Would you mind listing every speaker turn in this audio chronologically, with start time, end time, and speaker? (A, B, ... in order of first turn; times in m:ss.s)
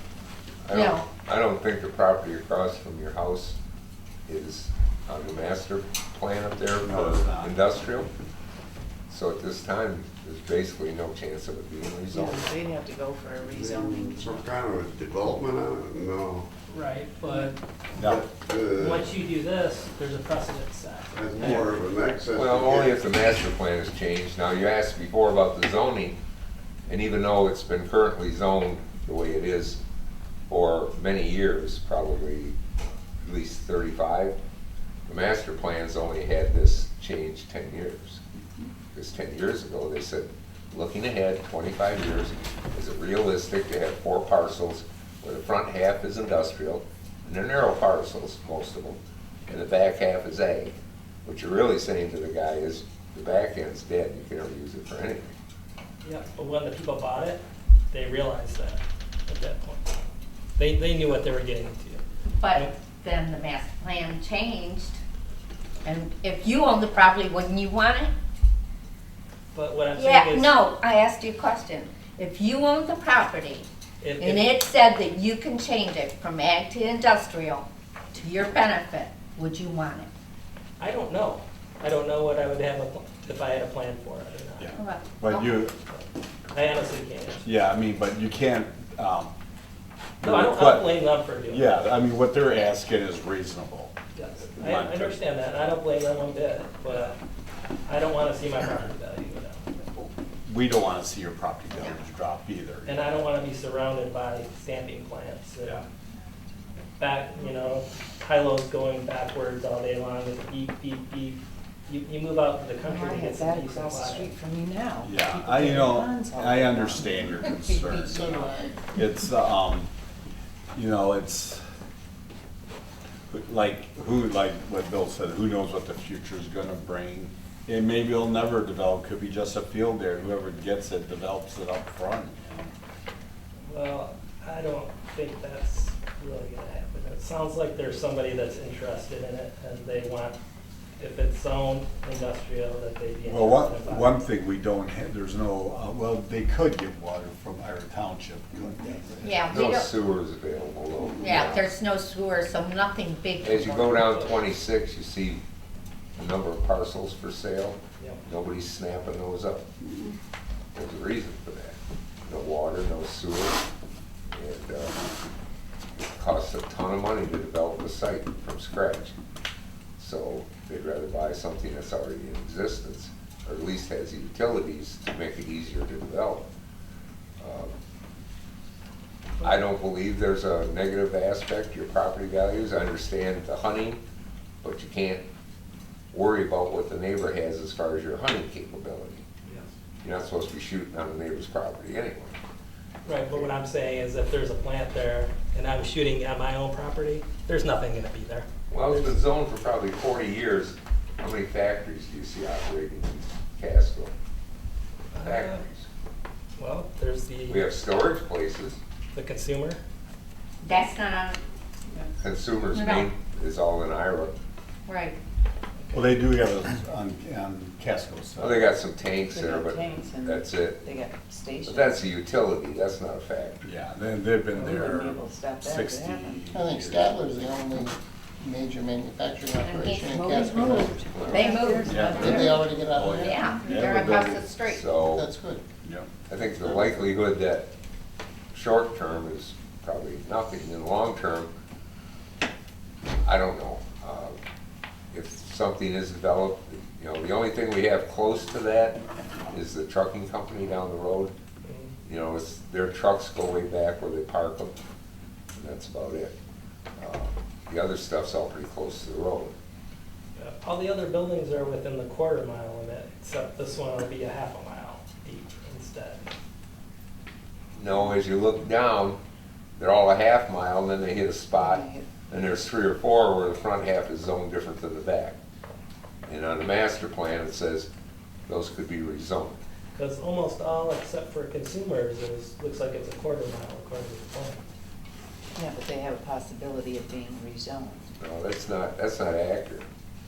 0:00.6-0:03.6 A
0:00.7-0:01.0 B
0:04.3-0:08.1 A
0:06.8-0:07.5 C
0:09.1-0:12.5 A
0:12.1-0:14.5 D
0:13.4-0:16.5 E
0:16.7-0:17.5 F
0:18.0-0:18.2 C
0:18.0-0:19.1 E
0:18.7-0:21.6 F
0:21.1-0:23.1 E
0:22.3-0:26.2 A
0:26.9-0:29.8 A
0:30.5-0:32.6 A
0:33.2-0:34.4 A
0:35.1-0:38.2 A
0:38.9-0:55.3 A
0:56.0-0:59.8 F
1:00.6-1:02.0 F
1:02.4-1:05.0 B
1:05.8-1:08.1 B
1:09.5-1:10.5 F
1:09.9-1:13.7 B
1:14.0-1:14.4 F
1:14.2-1:20.1 B
1:20.8-1:24.8 F
1:24.6-1:25.7 C
1:24.8-1:25.4 B
1:25.9-1:27.5 F
1:27.4-1:29.3 C
1:30.2-1:35.2 C
1:30.2-1:31.8 F
1:34.1-1:37.2 F
1:37.8-1:39.7 F
1:40.4-1:43.0 C
1:42.8-1:45.8 F
1:47.0-1:54.3 F
1:52.8-1:58.5 D
1:55.0-1:58.3 C
1:58.0-1:58.8 G
1:58.9-1:59.9 C
2:00.7-2:01.6 C
2:03.3-2:12.7 C
2:13.7-2:20.4 F
2:21.0-2:24.2 F
2:23.3-2:29.4 C
2:29.2-2:29.9 B
2:29.5-2:31.7 A
2:31.2-2:33.5 B
2:33.4-2:35.4 A
2:33.8-2:34.3 F
2:36.2-2:39.6 A
2:40.7-2:43.6 A
2:44.3-2:45.0 A
2:46.2-2:49.1 A
2:50.0-2:56.5 A
2:57.4-2:57.7 A
2:59.4-3:04.0 A
3:04.6-3:05.2 A
3:06.1-3:09.2 A
3:10.0-3:12.4 A
3:13.0-3:19.2 F
3:18.7-3:24.1 A
3:25.1-3:25.9 A
3:25.1-3:25.6 F
3:26.6-3:27.6 F
3:27.5-3:28.8 A
3:29.1-3:29.8 F
3:30.6-3:31.4 B
3:32.2-3:34.3 A
3:32.7-3:33.1 B
3:34.8-3:35.2 B
3:35.8-3:36.1 F
3:35.9-3:38.6 C
3:38.4-3:40.9 A
3:39.3-3:42.0 D
3:41.6-3:43.6 A
3:43.6-3:47.4 C
3:44.5-3:46.5 D
3:46.5-3:51.2 G
3:49.7-3:50.8 B
3:49.8-3:52.8 D
3:51.1-3:51.5 A
3:51.3-3:52.2 B
3:51.8-3:54.5 C
3:51.9-3:53.7 G
3:53.2-3:54.8 B
3:53.5-3:53.9 D
3:54.6-3:55.3 A
3:54.9-3:55.6 G
3:55.8-3:56.1 C
3:56.3-3:57.7 A
3:56.6-3:57.1 C
3:58.5-4:01.5 A
4:03.2-4:04.4 A
4:05.1-4:11.3 A
4:11.6-4:11.9 F
4:12.0-4:14.7 A
4:15.5-4:16.3 A
4:17.0-4:19.5 A
4:20.4-4:26.3 F
4:27.8-4:29.2 A
4:29.8-4:35.4 A
4:31.5-4:32.0 D
4:36.3-4:37.9 A
4:38.5-4:39.6 A
4:40.0-4:44.6 F
4:45.6-4:48.1 D
4:48.2-4:49.9 A